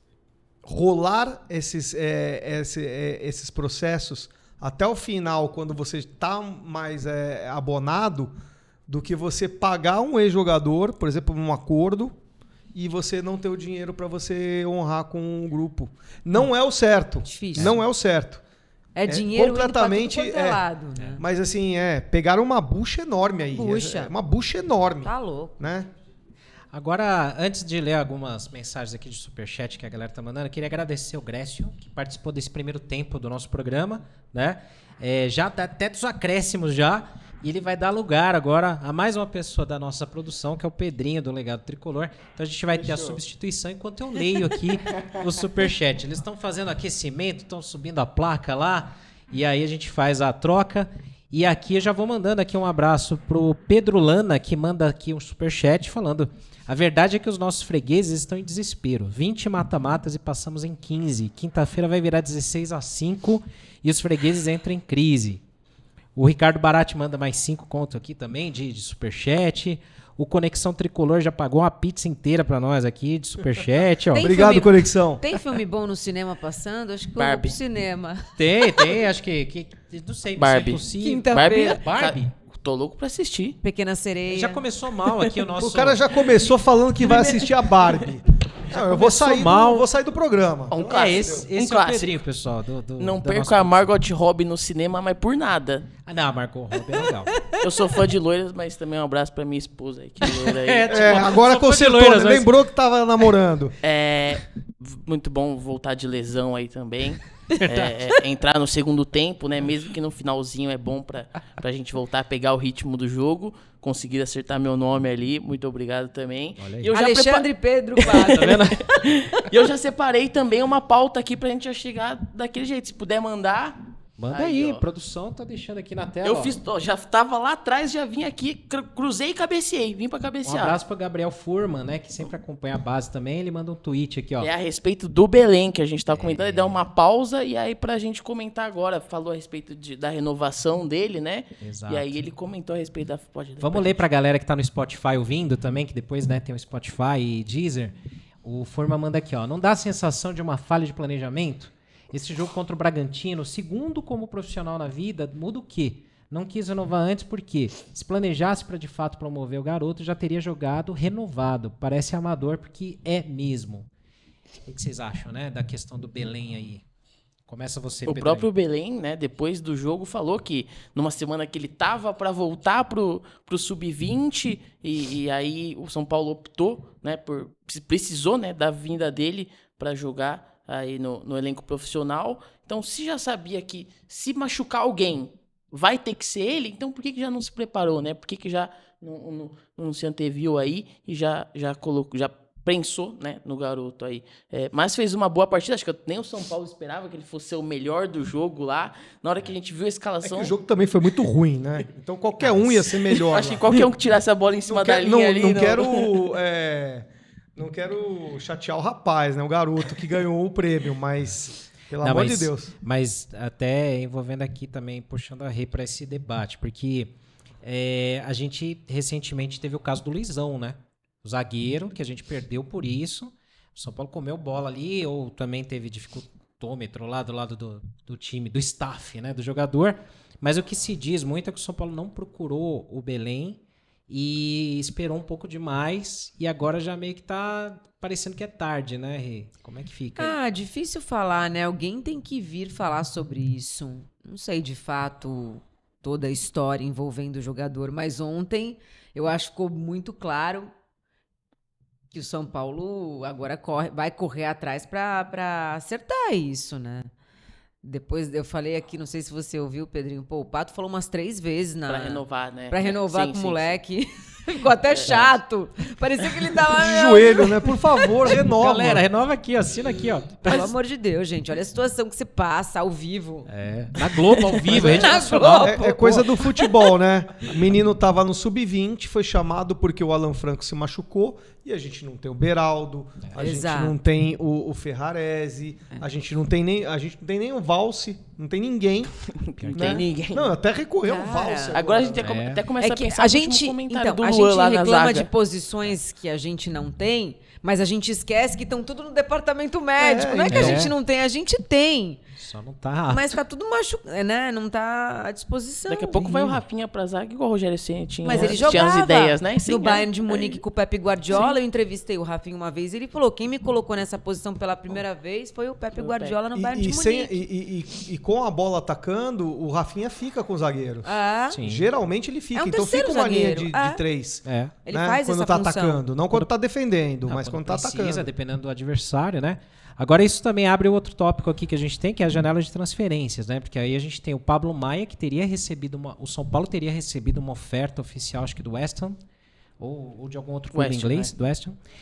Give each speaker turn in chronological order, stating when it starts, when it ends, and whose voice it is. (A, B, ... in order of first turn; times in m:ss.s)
0:00.6-0:08.3 A
0:08.9-0:12.2 A
0:12.7-0:18.4 A
0:17.2-0:17.7 B
0:19.0-0:21.2 B
0:19.0-0:20.6 A
0:21.2-0:25.9 A
0:23.5-0:24.1 B
0:25.0-0:25.6 B
0:26.7-1:05.4 C
1:06.1-1:14.4 C
1:14.1-1:18.9 B
1:14.1-1:15.2 A
1:17.2-1:17.6 D
1:18.4-1:22.3 C
1:20.4-1:23.6 D
1:21.0-1:21.8 B
1:23.6-1:24.6 B
1:24.3-1:26.1 C
1:25.0-1:25.3 D
1:25.6-1:31.5 A
1:27.0-1:28.1 D
1:28.8-1:29.8 C
1:30.7-1:32.1 D
1:30.8-1:33.9 C
1:33.0-1:35.9 D
1:36.0-1:37.6 C
1:37.5-1:41.3 D
1:40.2-1:42.5 C
1:40.9-1:43.7 A
1:43.8-2:04.8 D
1:47.6-1:48.0 C
1:56.6-1:56.9 C
1:56.9-1:58.6 B
1:58.1-1:58.8 C
2:04.2-2:06.6 C
2:06.2-2:10.8 D
2:10.4-2:14.5 C
2:14.4-2:24.0 D
2:16.1-2:16.8 C
2:21.6-2:22.2 C
2:23.6-2:43.9 C
2:44.6-2:46.8 C
2:47.5-2:48.5 C
2:48.0-3:20.5 D
3:20.2-3:23.8 A
3:22.4-3:22.7 C
3:23.2-3:26.2 D
3:24.7-3:32.7 A
3:32.0-4:00.4 C
4:00.2-4:10.7 B
4:12.1-4:17.1 B
4:17.8-4:28.2 B
4:21.9-4:23.8 D
4:24.9-4:25.3 D
4:26.7-4:29.0 A
4:28.2-4:30.7 C
4:30.4-4:33.5 B
4:33.5-4:36.3 C
4:34.5-4:36.8 B
4:34.7-4:49.2 A
4:43.4-4:44.0 B
4:49.2-4:50.4 D
4:49.6-4:50.0 C
4:49.7-4:52.4 A
4:51.0-4:51.8 B
4:51.7-4:55.3 D
4:52.2-4:52.6 C
4:52.8-5:02.2 B
5:00.0-5:00.9 A
5:00.5-5:00.9 C
5:02.4-5:03.3 C
5:03.1-5:06.6 B
5:05.9-5:10.6 D
5:08.2-5:17.4 B
5:11.3-5:11.6 D
5:15.9-5:16.4 D
5:16.5-5:28.3 A
5:21.0-5:21.6 B
5:21.5-5:21.9 C
5:22.5-5:24.0 B
5:24.4-5:24.7 C
5:24.8-5:26.0 B
5:27.2-5:39.2 C
5:39.8-5:41.8 C
5:40.7-5:41.3 D